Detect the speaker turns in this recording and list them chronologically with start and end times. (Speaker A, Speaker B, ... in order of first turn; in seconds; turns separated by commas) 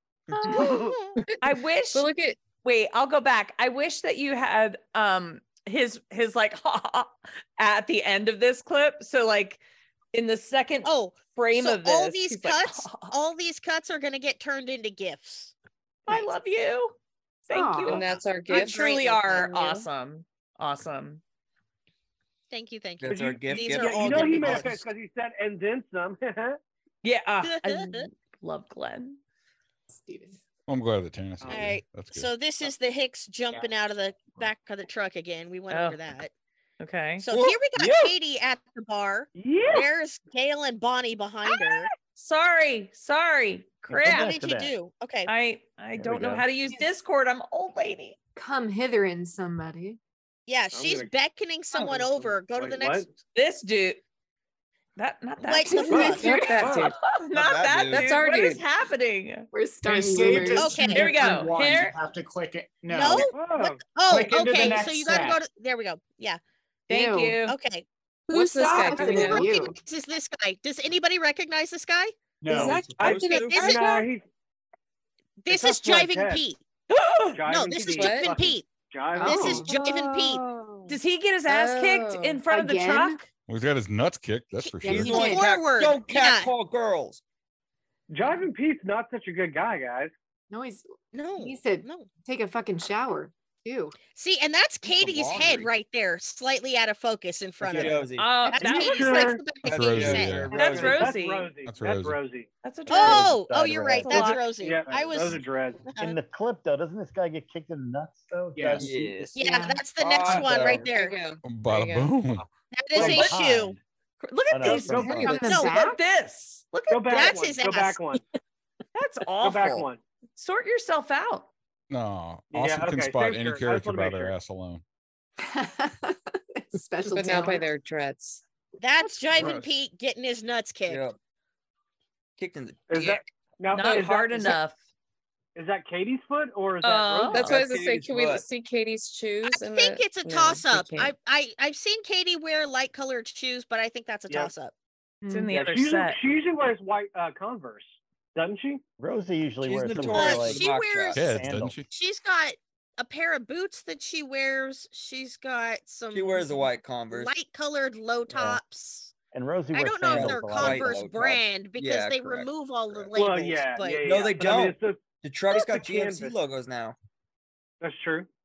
Speaker A: 0.4-2.4, Speaker B: 0.6-1.2, Speaker C: 1.4-9.6, Speaker C: 10.1-13.1, Speaker B: 10.8-15.5, Speaker C: 16.1-21.2, Speaker D: 17.5-18.1, Speaker A: 17.8-19.9, Speaker B: 18.6-19.2, Speaker B: 22.5-24.8, Speaker E: 23.0-24.8, Speaker F: 23.5-26.6, Speaker C: 27.0-29.2, Speaker B: 27.4-28.1, Speaker D: 29.9-30.4, Speaker G: 30.7-32.3, Speaker F: 31.4-31.7, Speaker B: 31.5-36.3, Speaker C: 35.7-36.0, Speaker C: 36.8-37.2, Speaker B: 37.2-41.9, Speaker E: 37.3-38.1, Speaker F: 39.4-39.9, Speaker C: 41.5-44.3, Speaker H: 43.9-44.7, Speaker B: 44.1-45.3, Speaker C: 45.3-48.2, Speaker H: 46.0-46.5, Speaker D: 48.4-50.0, Speaker B: 50.5-53.1, Speaker F: 50.7-51.1, Speaker F: 51.7-53.1, Speaker C: 53.4-54.0, Speaker C: 55.0-59.5, Speaker B: 55.4-56.5, Speaker D: 55.7-56.5, Speaker A: 55.8-57.0, Speaker E: 57.3-58.1, Speaker A: 57.9-58.6, Speaker D: 59.5-60.8, Speaker I: 59.9-63.3, Speaker B: 60.5-61.1, Speaker C: 60.9-61.9, Speaker B: 62.9-66.4, Speaker F: 63.3-63.9, Speaker I: 64.1-65.4, Speaker D: 66.9-67.4, Speaker C: 66.9-67.5, Speaker B: 67.4-67.8, Speaker D: 68.3-69.8, Speaker A: 68.3-69.6, Speaker B: 68.7-72.3, Speaker I: 72.4-72.8, Speaker E: 72.5-73.8, Speaker F: 73.0-74.2, Speaker B: 73.1-74.0, Speaker B: 75.4-76.6, Speaker F: 75.5-76.5, Speaker C: 76.9-77.4, Speaker F: 77.3-79.7, Speaker B: 77.4-80.4, Speaker A: 77.8-78.3, Speaker D: 79.2-79.7, Speaker C: 79.7-80.1, Speaker C: 80.9-83.2, Speaker A: 81.5-82.4, Speaker D: 82.5-83.3, Speaker G: 83.5-85.3, Speaker B: 84.6-86.5, Speaker D: 84.8-85.4, Speaker E: 84.9-87.2, Speaker F: 88.1-90.1, Speaker D: 90.5-94.0, Speaker B: 91.1-92.1, Speaker B: 94.0-100.8, Speaker E: 94.8-95.7, Speaker E: 97.6-98.4, Speaker C: 98.2-99.1, Speaker F: 98.7-99.4, Speaker E: 99.6-101.2, Speaker G: 99.7-100.5, Speaker C: 100.5-101.5, Speaker F: 100.7-102.5, Speaker G: 101.7-102.2, Speaker C: 102.6-103.3, Speaker B: 102.9-106.2, Speaker H: 102.9-104.3, Speaker C: 104.0-104.5, Speaker F: 104.5-105.9, Speaker I: 104.9-105.3, Speaker H: 106.0-109.0, Speaker I: 108.5-108.9, Speaker E: 108.8-110.9, Speaker B: 109.3-111.2, Speaker D: 109.4-109.7, Speaker A: 110.9-112.3, Speaker G: 111.4-112.5, Speaker B: 112.7-113.8, Speaker H: 113.0-113.8, Speaker C: 114.2-117.1, Speaker H: 114.5-115.3, Speaker D: 114.9-116.0, Speaker B: 115.2-115.9, Speaker F: 116.9-118.2, Speaker B: 116.9-118.0, Speaker C: 119.0-121.5, Speaker F: 119.4-120.0, Speaker G: 121.9-124.8, Speaker F: 122.5-124.4, Speaker D: 125.4-127.7, Speaker A: 127.0-128.4, Speaker B: 128.8-131.1, Speaker E: 129.3-129.7, Speaker E: 130.9-131.2, Speaker E: 132.4-133.2, Speaker F: 132.9-134.6, Speaker C: 133.7-134.8, Speaker F: 135.6-137.6, Speaker C: 136.8-137.5, Speaker A: 137.3-141.1, Speaker E: 137.4-138.4, Speaker B: 139.5-144.7, Speaker D: 145.2-145.6, Speaker C: 145.3-146.2, Speaker F: 145.5-148.8, Speaker H: 149.0-150.6, Speaker E: 149.6-151.3, Speaker B: 150.0-151.4, Speaker G: 151.2-151.9, Speaker H: 151.2-151.8, Speaker B: 151.9-159.1, Speaker E: 156.1-157.3, Speaker H: 158.3-158.6, Speaker H: 159.3-161.2, Speaker B: 159.7-164.2, Speaker E: 160.0-167.0, Speaker F: 163.2-166.3, Speaker F: 167.8-168.3